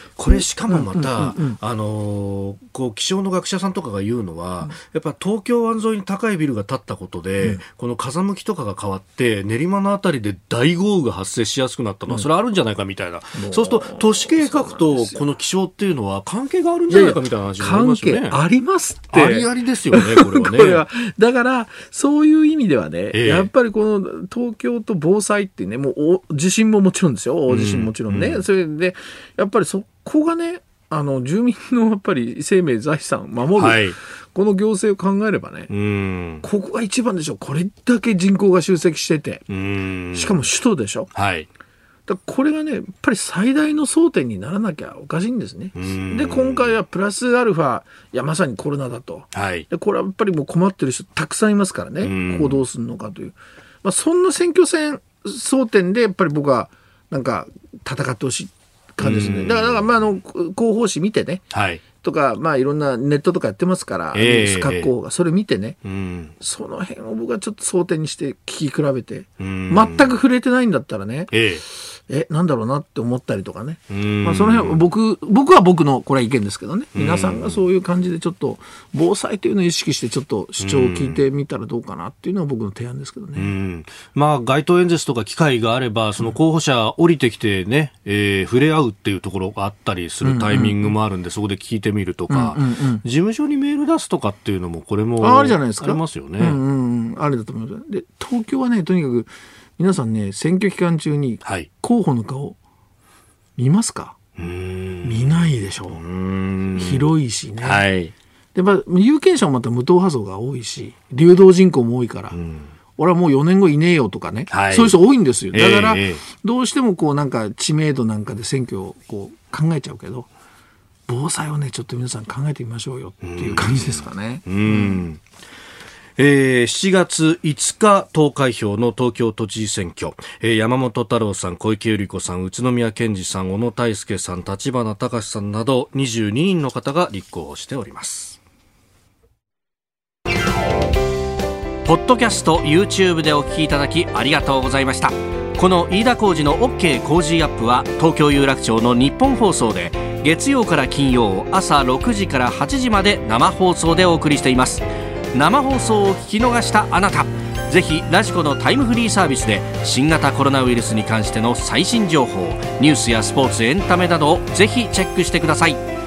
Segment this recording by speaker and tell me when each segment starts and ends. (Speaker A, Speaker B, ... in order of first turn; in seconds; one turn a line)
Speaker A: 0.2-18.4
Speaker B: 0.3-1.6
Speaker B: 13.3-15.2
Speaker B: 16.9-35.7
Speaker A: 19.1-20.8
Speaker A: 23.1-23.5
Speaker A: 27.5-28.4
Speaker A: 33.6-34.0
Speaker A: 35.7-36.5
Speaker B: 36.4-39.5
Speaker A: 39.5-40.5
Speaker B: 40.1-41.1
Speaker A: 41.1-41.5
Speaker B: 42.1-65.8
Speaker A: 45.8-46.7
Speaker A: 49.3-49.7
Speaker A: 52.0-52.6
Speaker A: 59.0-59.8
Speaker A: 61.5-61.8
Speaker A: 64.1-64.9
Speaker A: 65.8-66.3
Speaker B: 66.4-83.5
Speaker A: 69.4-70.1
Speaker A: 71.3-71.6
Speaker A: 73.9-74.8
Speaker A: 76.9-77.6
Speaker A: 80.6-81.2
Speaker A: 83.4-96.6
Speaker B: 90.2-91.0
Speaker B: 92.3-93.0
Speaker B: 95.2-102.6
Speaker A: 101.4-101.7
Speaker B: 103.6-104.2
Speaker A: 104.4-107.1
Speaker B: 105.0-106.0
Speaker B: 106.8-107.8
Speaker A: 107.6-108.1
Speaker B: 108.5-112.4
Speaker A: 112.3-112.7
Speaker B: 113.0-120.3
Speaker A: 114.5-115.0
Speaker A: 115.5-116.2
Speaker B: 121.1-125.0
Speaker A: 123.2-125.2
Speaker A: 126.2-138.4
Speaker A: 141.8-165.8